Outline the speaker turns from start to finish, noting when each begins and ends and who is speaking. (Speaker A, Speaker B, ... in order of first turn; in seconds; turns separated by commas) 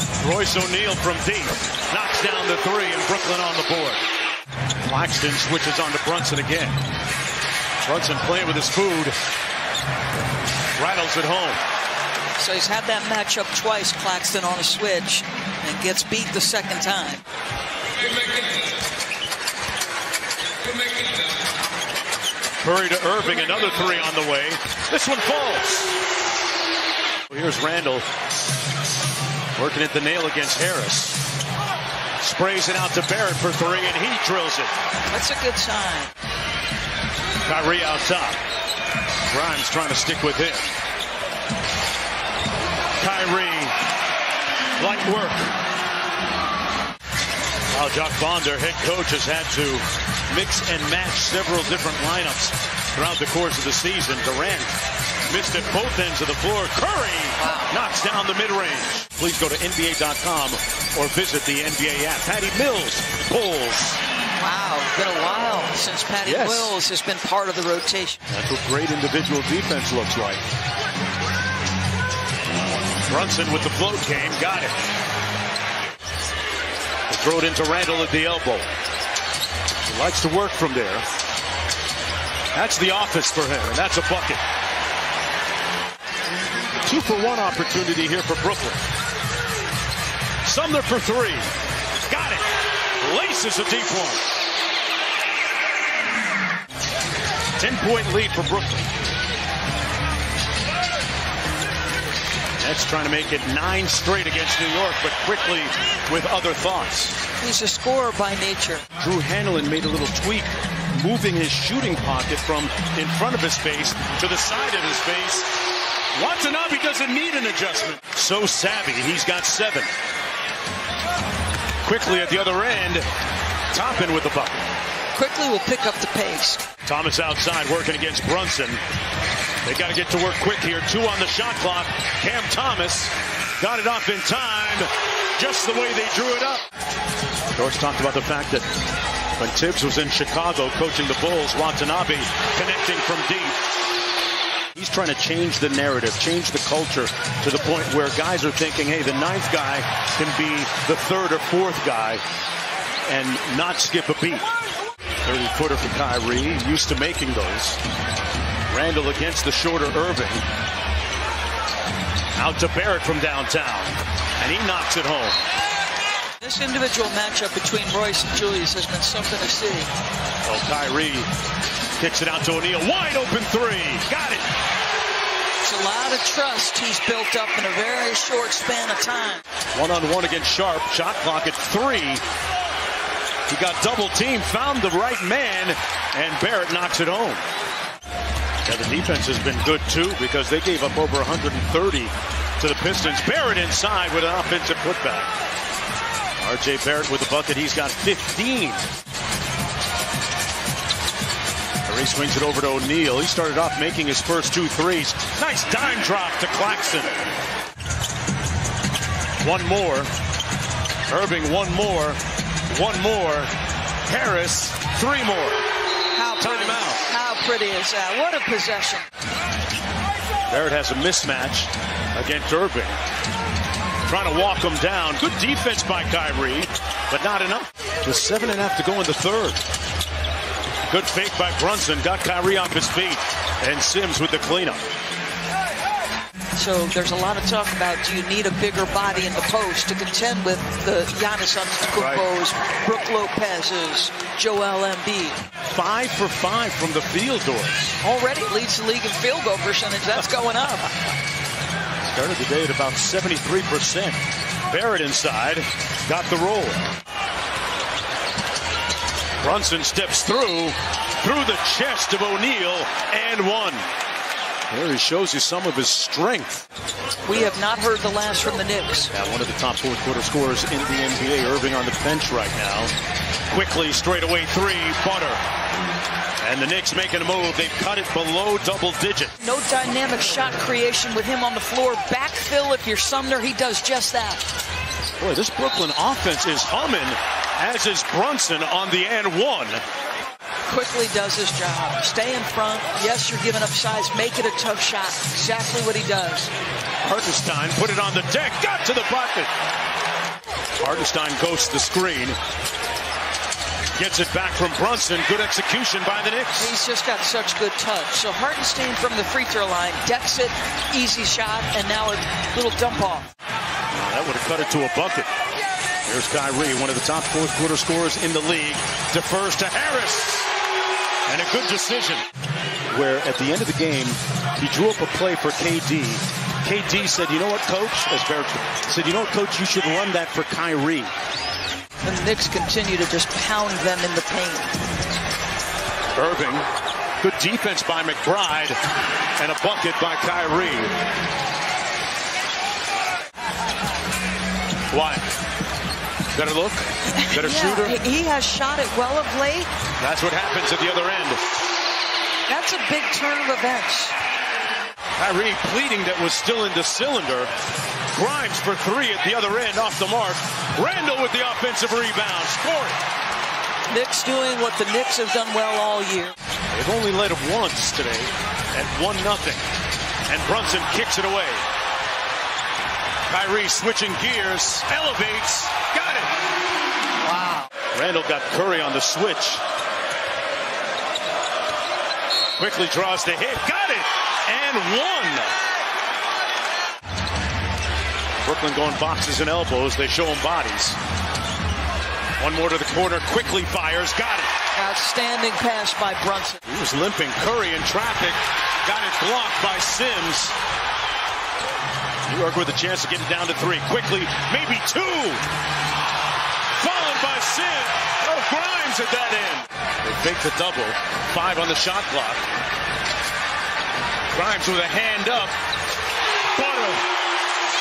Speaker A: 0.2-4.0, Speaker A: 4.8-6.8, Speaker A: 7.8-9.2, Speaker A: 10.8-11.6, Speaker B: 12.4-17.2, Speaker A: 22.6-26.0, Speaker A: 27.3-28.1, Speaker A: 29.6-31.3, Speaker A: 32.2-34.7, Speaker B: 35.1-36.1, Speaker A: 37.4-38.4, Speaker A: 39.3-40.7, Speaker A: 43.0-43.8, Speaker A: 44.8-45.5, Speaker A: 47.7-54.7, Speaker A: 55.3-64.0, Speaker B: 57.4-57.7, Speaker B: 64.4-68.2, Speaker A: 66.2-66.8, Speaker A: 68.3-70.4, Speaker A: 73.1-74.7, Speaker A: 77.1-78.7, Speaker A: 79.9-81.1, Speaker A: 82.5-84.4, Speaker A: 86.8-88.8, Speaker A: 90.5-91.5, Speaker A: 92.1-92.5, Speaker A: 93.0-94.2, Speaker A: 97.6-98.9, Speaker A: 102.6-107.2, Speaker B: 107.4-108.8, Speaker A: 109.0-115.5, Speaker A: 116.2-119.9, Speaker A: 121.8-123.0, Speaker A: 123.7-124.7, Speaker B: 125.2-126.6, Speaker A: 126.8-128.8, Speaker A: 129.6-136.6, Speaker A: 137.6-138.7, Speaker A: 139.4-143.6, Speaker A: 144.8-152.2, Speaker A: 153.1-154.4, Speaker A: 155.2-157.8, Speaker A: 158.7-160.4, Speaker A: 162.4-165.4, Speaker B: 166.4-169.9, Speaker A: 170.4-171.3, Speaker A: 172.0-174.5, Speaker B: 175.6-179.4, Speaker A: 179.7-182.2, Speaker A: 183.5-187.4, Speaker A: 188.7-195.3, Speaker A: 196.4-198.9, Speaker A: 201.9-207.1, Speaker A: 209.4-210.1, Speaker A: 211.1-213.5, Speaker A: 214.1-215.6, Speaker B: 216.1-219.1, Speaker A: 216.3-217.1, Speaker A: 220.5-223.0, Speaker A: 224.0-229.6, Speaker A: 230.9-234.9, Speaker B: 236.6-245.4, Speaker A: 242.0-242.3, Speaker A: 245.7-248.0, Speaker B: 248.0-250.9, Speaker A: 252.0-256.9, Speaker A: 259.4-263.9, Speaker A: 264.7-266.7, Speaker B: 267.2-269.1, Speaker A: 269.1-272.9, Speaker A: 273.5-275.4, Speaker A: 276.4-279.3, Speaker B: 279.4-284.4, Speaker A: 285.2-289.8, Speaker B: 290.7-296.5, Speaker A: 297.0-299.5, Speaker A: 300.8-302.4, Speaker A: 304.0-306.7, Speaker B: 306.6-313.3, Speaker A: 313.9-315.3, Speaker A: 316.1-320.5, Speaker A: 321.3-322.2, Speaker A: 322.9-331.1, Speaker B: 332.0-334.8, Speaker A: 336.1-336.7, Speaker A: 337.2-338.8, Speaker A: 339.4-340.9, Speaker A: 344.9-345.3, Speaker A: 346.3-348.0, Speaker B: 347.1-349.7, Speaker A: 350.0-351.4, Speaker B: 352.5-354.1, Speaker A: 355.2-357.5, Speaker A: 358.1-363.0, Speaker B: 363.9-366.4, Speaker A: 366.7-369.6, Speaker A: 370.3-371.6, Speaker A: 373.3-376.3, Speaker B: 377.4-377.6, Speaker A: 377.9-379.6, Speaker A: 382.6-385.6, Speaker A: 388.4-391.0, Speaker A: 392.4-394.5, Speaker B: 394.7-396.6, Speaker A: 396.7-400.6, Speaker A: 402.3-405.4, Speaker A: 406.8-412.4, Speaker A: 414.3-415.5, Speaker A: 416.5-417.0